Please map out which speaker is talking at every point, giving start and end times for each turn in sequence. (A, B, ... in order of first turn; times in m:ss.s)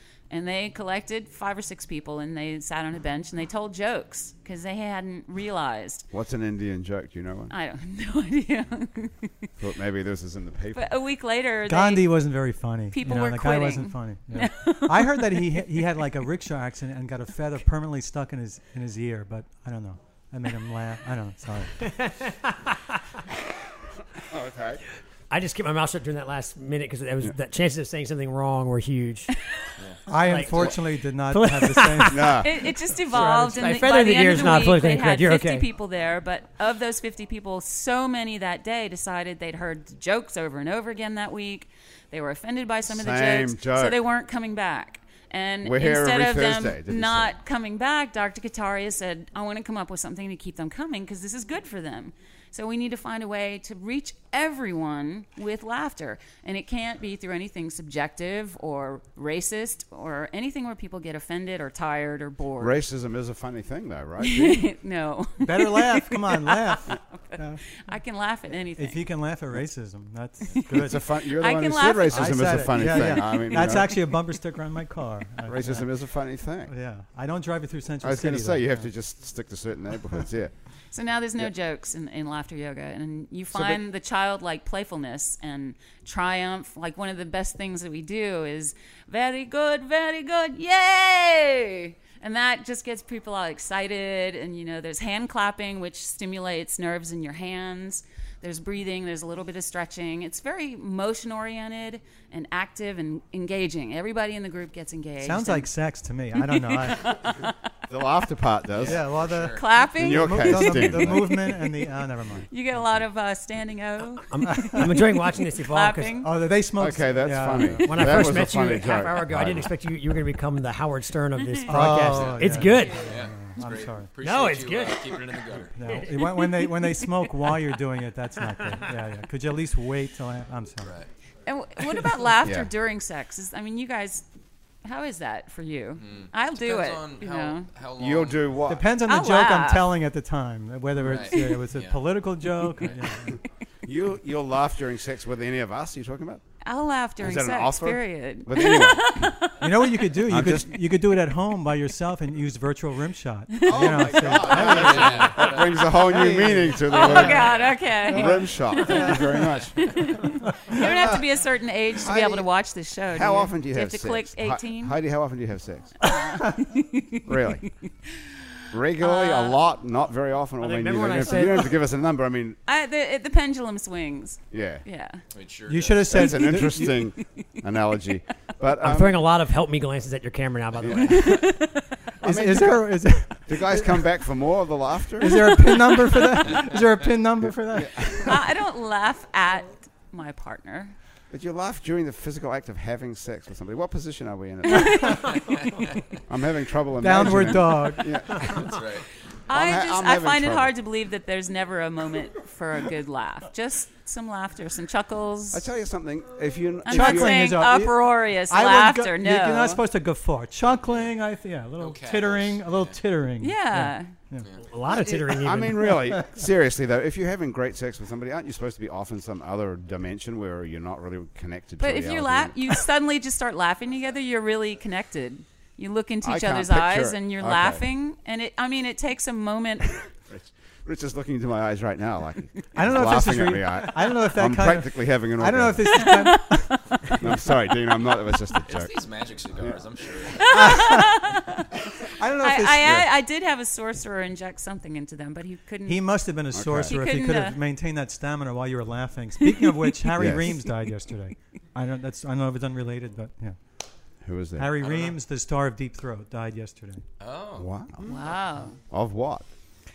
0:00.3-0:06.1 A
0:06.1-0:07.5 B
0:07.5-0:09.5 A
0:09.6-0:10.9 B
0:10.7-0:12.2 A
0:11.7-0:21.8 C
0:12.9-0:15.8 A
0:21.9-0:22.7 D
0:24.2-0:24.8 B
0:25.3-0:29.3 D
0:30.1-0:32.4 C
0:30.2-0:32.4 D
0:32.1-0:32.5 B
0:32.4-1:02.8 A
0:33.1-0:35.6 D
0:42.9-0:44.0 B
0:45.6-0:47.3 B
1:02.6-1:04.7 B
1:04.2-1:07.0 A
1:05.4-1:07.6 C
1:07.6-1:09.0 A
1:08.8-1:11.0 C
1:10.5-1:13.4 A
1:10.7-1:14.0 B
1:12.1-1:15.9 C
1:15.4-1:16.7 B
1:16.7-1:18.9 C
1:18.0-1:20.5 B
1:20.9-1:45.7 A
1:23.5-1:23.8 B
1:45.2-1:47.1 C
1:46.4-1:47.6 A
1:47.9-1:49.0 B
1:48.7-1:49.8 E
1:48.8-1:52.5 C
1:49.5-1:51.7 A
1:49.9-1:51.4 B
1:52.5-1:56.3 A
1:54.3-1:56.2 D
1:54.5-1:54.9 C
1:56.2-1:58.3 C
1:56.8-1:59.7 B
1:57.8-2:03.2 D
2:01.5-2:01.9 A
2:01.7-2:04.1 C
2:02.0-2:06.0 E
2:04.2-2:06.0 D
2:05.7-2:10.9 C
2:10.8-2:11.1 E
2:11.4-2:14.2 A
2:12.4-2:12.7 B
2:14.8-2:17.7 A
2:16.0-2:18.5 E
2:18.0-2:18.9 B
2:18.7-2:23.4 C
2:19.0-2:19.9 A
2:21.0-2:23.0 E
2:23.8-2:26.4 B
2:26.6-2:30.0 A
2:27.2-2:29.3 B
2:29.6-2:37.3 C
2:30.3-2:30.8 B
2:33.5-2:34.0 A
2:33.6-2:40.1 B
2:34.2-2:35.9 E
2:36.8-2:45.0 A
2:37.0-2:37.8 E
2:38.1-2:39.2 C
2:40.7-2:41.3 B
2:42.0-2:42.5 B
2:43.1-2:46.0 B
2:46.0-2:48.3 A
2:47.2-2:47.6 B
2:48.7-2:52.6 B
2:49.0-2:49.6 A
2:50.6-2:51.7 D
2:52.7-2:55.2 A
2:54.5-2:54.8 B
2:55.3-2:56.4 E
2:55.7-2:56.9 C
2:56.1-2:59.2 B
2:58.8-3:01.5 D
3:00.8-3:01.3 B
3:01.2-3:04.0 C
3:02.2-3:05.6 B
3:05.2-3:08.3 C
3:07.4-3:08.4 B
3:08.2-3:10.9 A
3:11.3-3:15.3 B
3:14.7-3:15.6 A
3:15.3-3:16.2 E
3:16.3-3:18.7 B
3:17.0-3:18.1 C
3:18.3-3:19.1 E
3:19.5-3:25.6 A
3:19.5-3:20.7 B
3:25.5-3:27.4 B
3:26.8-3:29.8 A
3:26.9-3:34.5 C
3:30.7-3:31.1 E
3:31.8-3:33.0 E
3:33.4-3:34.1 A
3:34.4-3:34.7 E
3:34.6-3:36.0 D
3:34.8-3:42.8 B
3:41.8-3:50.1 A
3:46.2-3:47.8 B
3:50.3-3:56.0 B
3:52.7-3:57.2 C
3:55.9-3:56.5 A
3:57.2-3:58.9 B
3:58.6-4:00.8 E
3:59.6-3:59.8 B
4:00.3-4:01.6 A
4:00.5-4:01.3 C
4:02.1-4:03.0 C
4:02.4-4:06.2 A
4:05.8-4:13.6 C
4:06.5-4:06.9 B
4:06.8-4:07.6 A
4:10.2-4:10.7 B
4:14.2-4:14.8 B
4:14.6-4:17.0 C
4:14.8-4:15.2 E
4:17.2-4:17.7 E
4:17.6-4:19.5 B
4:18.0-4:18.8 A